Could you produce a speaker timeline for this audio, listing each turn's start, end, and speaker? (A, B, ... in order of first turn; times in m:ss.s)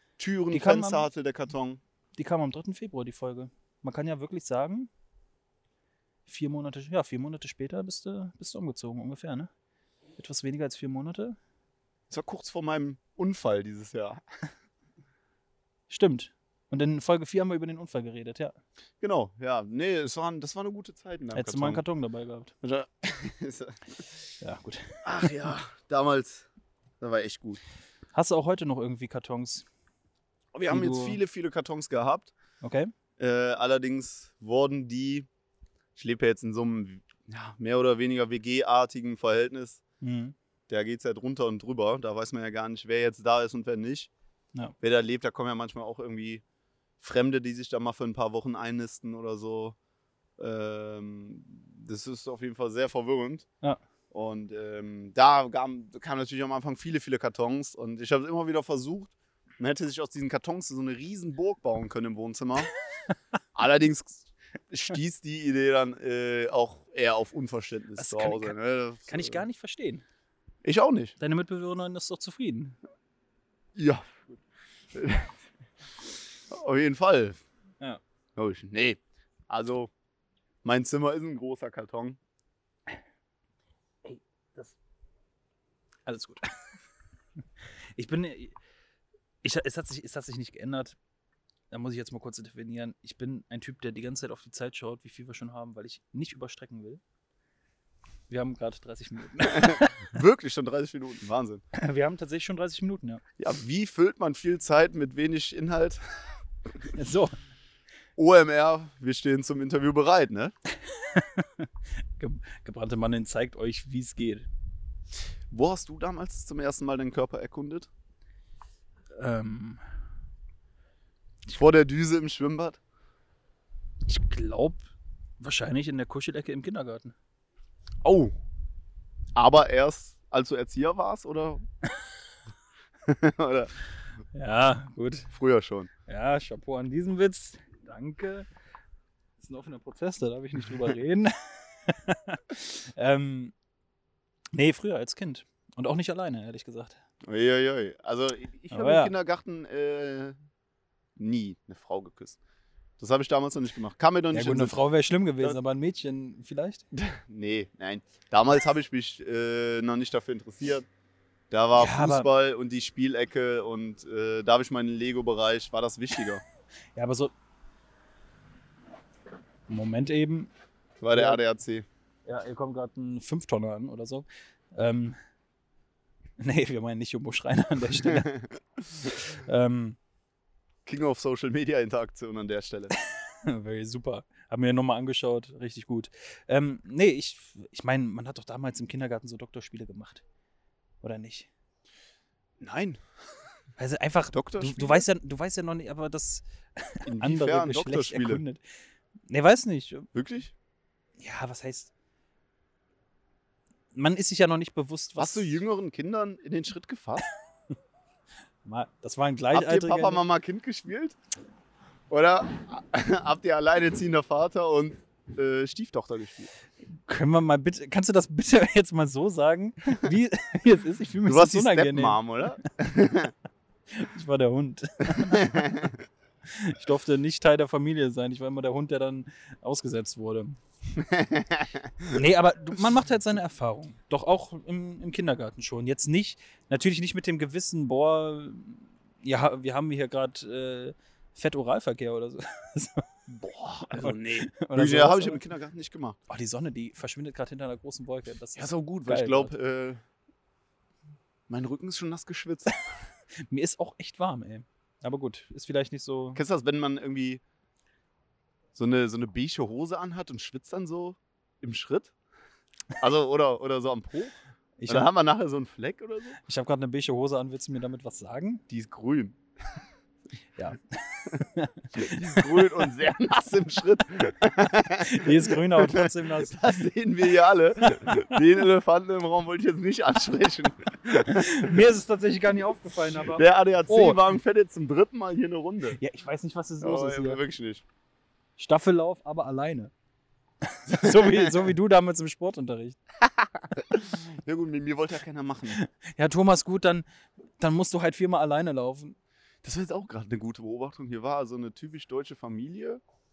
0:00.2-0:01.8 A
0:00.5-0:01.1 B
0:02.2-0:04.9 B
0:06.3-0:09.5 B
0:10.2-0:11.4 B
0:12.1-0:14.2 A
0:15.9-0:18.6 B
0:19.0-0:21.8 A
0:21.3-0:22.5 B
0:22.6-0:23.8 A
0:24.4-0:25.2 B
0:25.0-0:26.5 A
0:27.0-0:27.6 A
0:28.1-0:29.6 B
0:30.5-0:32.3 A
0:30.7-0:31.2 B
0:32.6-0:32.9 B
0:33.2-0:35.3 A
0:36.0-0:39.8 A
0:40.0-0:40.4 B
0:40.7-0:44.1 A
0:44.8-0:46.4 A
0:47.0-0:49.8 A
0:50.4-0:53.5 A
0:54.1-1:02.7 A
1:03.6-1:09.4 A
1:08.0-1:08.6 B
1:09.1-1:10.0 B
1:10.6-1:11.2 A
1:11.2-1:12.8 B
1:13.8-1:14.4 A
1:14.9-1:15.4 A
1:16.5-1:17.4 A
1:18.4-1:19.9 A
1:20.6-1:22.2 A
1:24.0-1:24.8 B
1:26.1-1:26.4 B
1:28.0-1:28.6 B
1:29.4-1:31.0 B
1:31.7-1:37.0 B
1:38.3-1:40.1 B
1:39.4-1:41.6 A
1:41.7-1:43.2 B
1:43.4-1:46.3 A
1:46.9-1:47.4 B
1:48.2-1:50.5 A
1:51.0-1:51.7 B
1:52.2-1:54.5 B
1:55.5-1:57.9 A
1:59.2-1:59.8 B
2:01.5-2:02.8 A
2:04.1-2:04.8 B
2:05.4-2:07.2 B
2:08.0-2:08.3 A
2:09.4-2:11.6 A
2:13.1-2:13.7 A
2:14.3-2:15.3 B
2:15.3-2:15.9 A
2:16.1-2:18.5 B
2:19.4-2:23.5 B
2:24.5-2:27.0 B
2:27.3-2:30.4 A
2:28.7-2:29.1 B
2:31.2-2:32.4 A
2:33.0-2:34.8 A
2:34.3-2:36.8 B
2:36.9-2:40.9 A
2:41.5-2:46.4 A
2:41.8-2:42.3 B
2:47.0-2:47.3 B
2:49.7-2:50.5 B
2:51.0-2:51.9 A
2:51.1-2:51.4 B
2:52.3-2:55.2 B
2:56.4-2:58.3 B
2:58.0-2:58.6 A
2:59.2-3:00.0 B
3:00.9-3:02.9 A
3:03.4-3:10.2 B
3:11.0-3:11.5 B
3:12.6-3:13.0 A
3:13.8-3:18.6 B
3:14.3-3:15.0 A
3:17.1-3:18.4 A
3:19.3-3:20.1 B
3:20.1-3:20.5 A
3:21.2-3:21.9 B
3:23.9-3:25.5 B
3:25.2-3:27.3 A
3:28.6-3:30.2 B
3:29.5-3:31.2 A
3:32.1-3:36.5 A
3:37.1-3:42.2 B
3:41.2-3:43.3 A
3:43.9-3:45.7 B
3:45.3-3:46.0 A
3:46.5-3:50.6 B
3:51.0-3:52.2 A
3:52.1-4:03.1 B
4:03.3-4:06.2 A
4:03.9-4:05.4 B
4:06.3-4:09.5 B
4:08.6-4:10.0 A
4:11.5-4:12.8 A
4:13.5-4:16.4 B
4:16.4-4:17.4 A
4:18.8-4:22.1 A
4:23.0-4:24.4 A
4:24.8-4:25.1 B
4:24.9-4:26.4 A
4:26.5-4:28.6 B
4:28.7-4:29.4 A
4:30.6-4:32.7 B
4:32.0-4:41.6 A
4:35.0-4:36.7 B
4:37.9-4:38.4 B
4:41.2-4:44.2 B
4:43.4-4:46.0 A
4:46.0-4:47.4 B
4:46.8-4:47.8 A
4:48.6-4:49.9 B
4:50.7-4:53.0 B
4:50.9-4:51.7 A
4:53.2-4:55.8 A
4:55.7-4:57.1 B
4:57.6-4:59.2 B
4:59.6-5:03.0 A